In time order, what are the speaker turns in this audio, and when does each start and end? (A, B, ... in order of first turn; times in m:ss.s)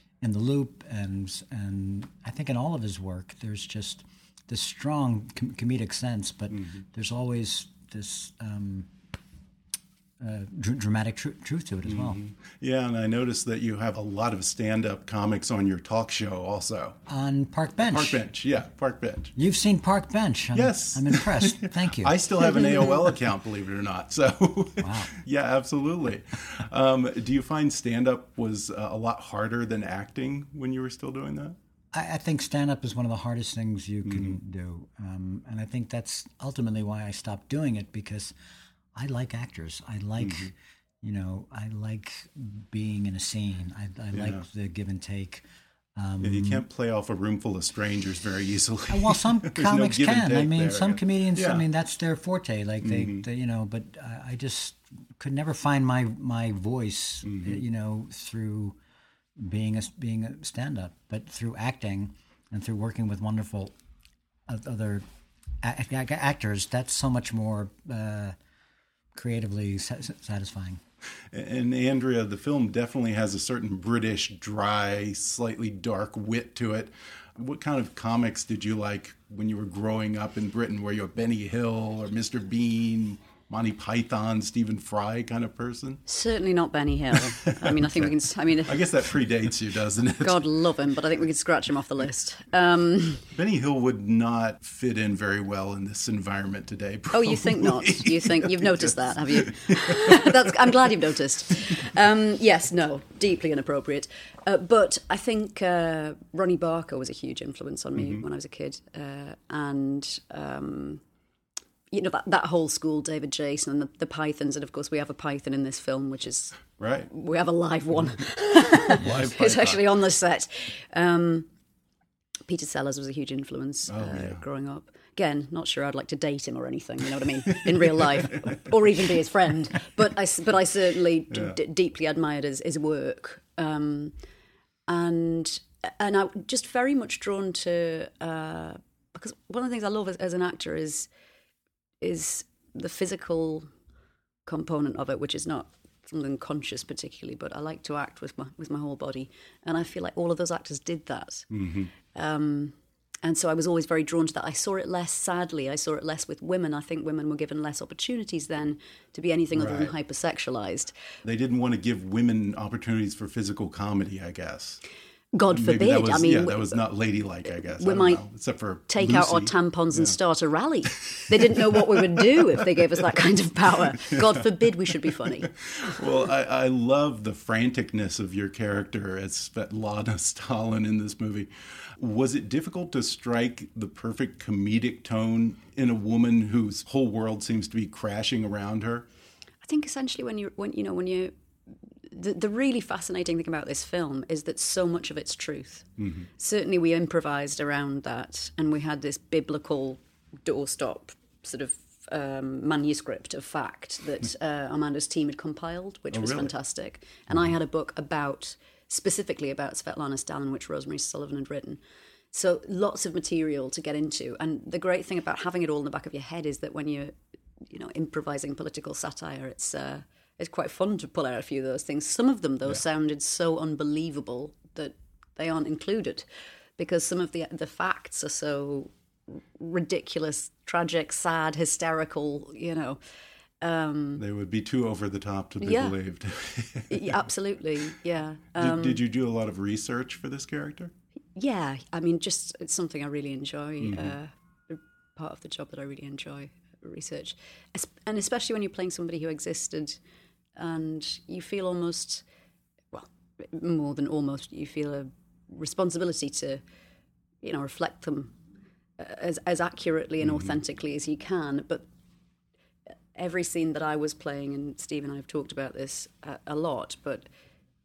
0:00.2-0:08.9 A
0:06.5-0:06.8 B
0:10.2-0:12.2 A
0:11.8-0:17.0 B
0:17.1-0:18.2 A
0:17.9-0:19.3 B
0:19.4-0:22.9 A
0:20.5-0:31.6 B
0:24.8-0:25.1 A
0:31.9-0:38.3 A
0:34.0-0:34.4 B
0:38.9-0:45.4 A
0:40.2-0:40.5 B
0:44.1-0:44.4 B
0:46.0-0:46.7 A
0:46.2-0:51.7 B
0:48.9-0:58.8 A
0:52.8-0:53.3 B
0:57.2-0:57.6 B
0:59.4-1:03.8 A
1:04.5-1:05.1 A
1:05.6-1:08.4 A
1:09.2-1:10.8 A
1:11.3-1:26.0 B
1:26.1-1:28.9 C
1:27.5-1:28.1 B
1:28.7-1:30.4 B
1:30.2-1:33.2 C
1:33.3-1:40.3 B
1:37.1-1:51.0 C
1:48.0-1:48.3 B
1:51.9-2:01.5 C
1:56.8-1:57.1 B
1:58.9-1:59.8 B
2:02.5-2:14.2 C
2:03.9-2:04.4 B
2:07.5-2:08.6 B
2:11.3-2:11.6 B
2:14.9-2:21.1 C
2:22.0-2:23.7 C
2:24.5-2:31.5 C
2:31.5-2:31.9 B
2:32.0-2:41.0 C
2:39.5-2:40.0 B
2:41.2-2:44.8 B
2:45.3-2:46.8 C
2:45.5-2:50.2 B
2:47.4-2:48.2 C
2:48.9-2:55.5 C
2:51.2-2:51.9 B
2:54.1-2:54.4 B
2:55.6-3:09.1 B
3:09.6-3:11.3 C
3:12.0-3:31.8 C
3:16.0-3:16.3 B
3:26.1-3:26.5 B
3:32.3-3:37.2 C
3:37.7-3:53.0 C
3:53.6-3:54.2 C
3:54.2-3:57.2 B
3:55.6-3:56.0 C
3:56.9-3:59.0 C
3:58.6-4:00.9 B
4:01.4-4:10.0 C
4:03.8-4:04.2 B
4:10.6-4:12.2 C
4:12.9-4:16.6 C
4:17.4-4:18.3 C
4:19.0-4:21.9 C
4:20.2-4:20.6 B
4:23.2-4:27.3 C